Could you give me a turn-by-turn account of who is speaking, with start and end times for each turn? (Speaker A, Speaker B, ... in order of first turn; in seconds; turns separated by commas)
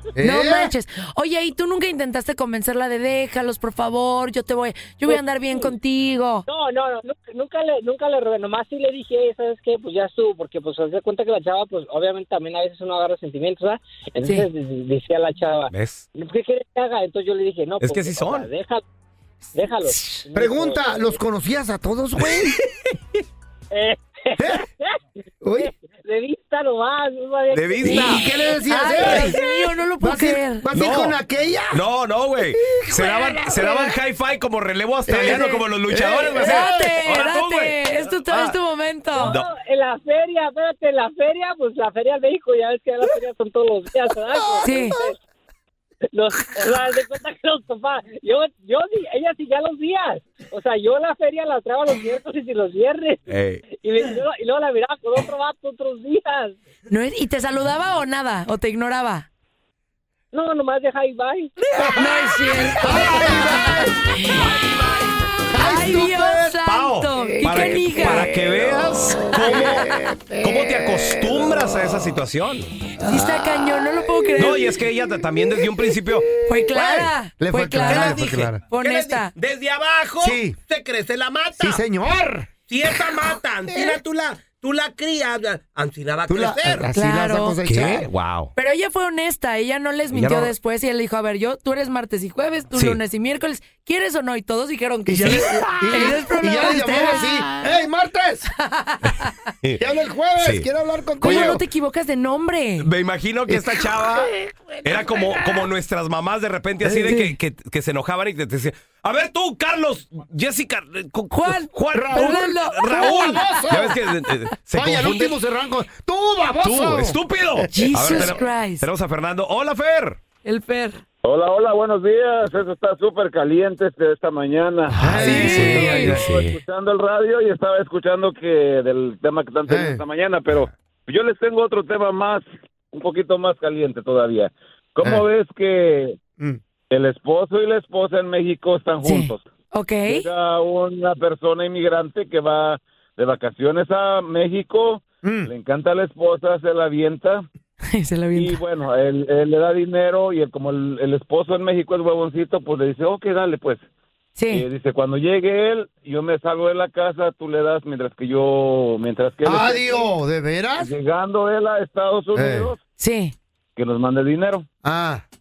Speaker A: 0.2-0.7, Speaker B: 0.2-6.5, Speaker C: 5.1-5.7, Speaker C: 6.5-18.8, Speaker D: 15.7-16.1, Speaker D: 17.8-18.5, Speaker C: 19.5-21.2, Speaker A: 20.3-22.6, Speaker D: 22.3-22.7, Speaker C: 23.7-24.9, Speaker A: 24.4-24.6, Speaker A: 25.4-25.7, Speaker C: 25.6-28.2, Speaker D: 27.5-28.2, Speaker B: 27.8-30.7, Speaker A: 27.9-29.4, Speaker A: 30.0-31.9, Speaker D: 30.7-31.2, Speaker D: 31.7-38.5, Speaker A: 32.4-34.0, Speaker A: 35.1-37.0, Speaker B: 35.2-35.6, Speaker B: 36.4-39.4, Speaker C: 39.1-45.2, Speaker D: 39.2-39.5, Speaker B: 44.6-45.0, Speaker C: 46.1-56.6, Speaker D: 53.3-53.6, Speaker B: 56.9-59.3, Speaker C: 60.3-61.5, Speaker A: 61.8-62.1, Speaker D: 61.8-63.8, Speaker B: 62.0-64.5, Speaker A: 62.8-63.9, Speaker D: 64.4-65.1, Speaker A: 65.5-66.6, Speaker B: 65.5-68.3, Speaker D: 66.7-72.7, Speaker A: 67.1-72.2, Speaker B: 73.0-74.7, Speaker A: 73.0-78.6, Speaker D: 74.4-76.3, Speaker B: 76.5-79.3, Speaker D: 77.9-81.8, Speaker A: 80.2-80.6, Speaker A: 81.6-84.0, Speaker D: 82.7-86.9, Speaker A: 86.3-88.1, Speaker B: 87.0-87.6, Speaker D: 87.7-88.5, Speaker B: 88.6-97.5, Speaker D: 90.1-90.5, Speaker D: 92.8-93.0, Speaker A: 95.1-98.5, Speaker B: 98.7-99.3, Speaker A: 99.8-101.6, Speaker D: 100.4-100.7, Speaker B: 101.2-102.9, Speaker D: 101.2-101.6, Speaker D: 102.8-115.4, Speaker A: 103.5-105.7, Speaker A: 106.8-107.2, Speaker B: 107.1-107.3, Speaker B: 111.3-113.7, Speaker A: 111.9-114.0, Speaker A: 114.7-118.4, Speaker D: 116.6-120.2, Speaker B: 117.7-118.9, Speaker B: 120.5-121.0, Speaker E: 121.2-136.2, Speaker A: 125.0-126.3, Speaker D: 125.0-126.6, Speaker B: 125.2-126.2, Speaker A: 129.7-130.0, Speaker E: 136.9-139.5, Speaker B: 139.0-140.3, Speaker E: 140.1-147.4, Speaker A: 145.2-145.5, Speaker B: 147.9-148.6, Speaker E: 148.3-153.8, Speaker B: 154.4-154.7, Speaker E: 154.5-160.1, Speaker A: 159.4-160.9, Speaker E: 160.8-162.8, Speaker A: 162.3-162.7, Speaker B: 163.0-163.3, Speaker E: 163.8-164.7, Speaker A: 164.8-165.2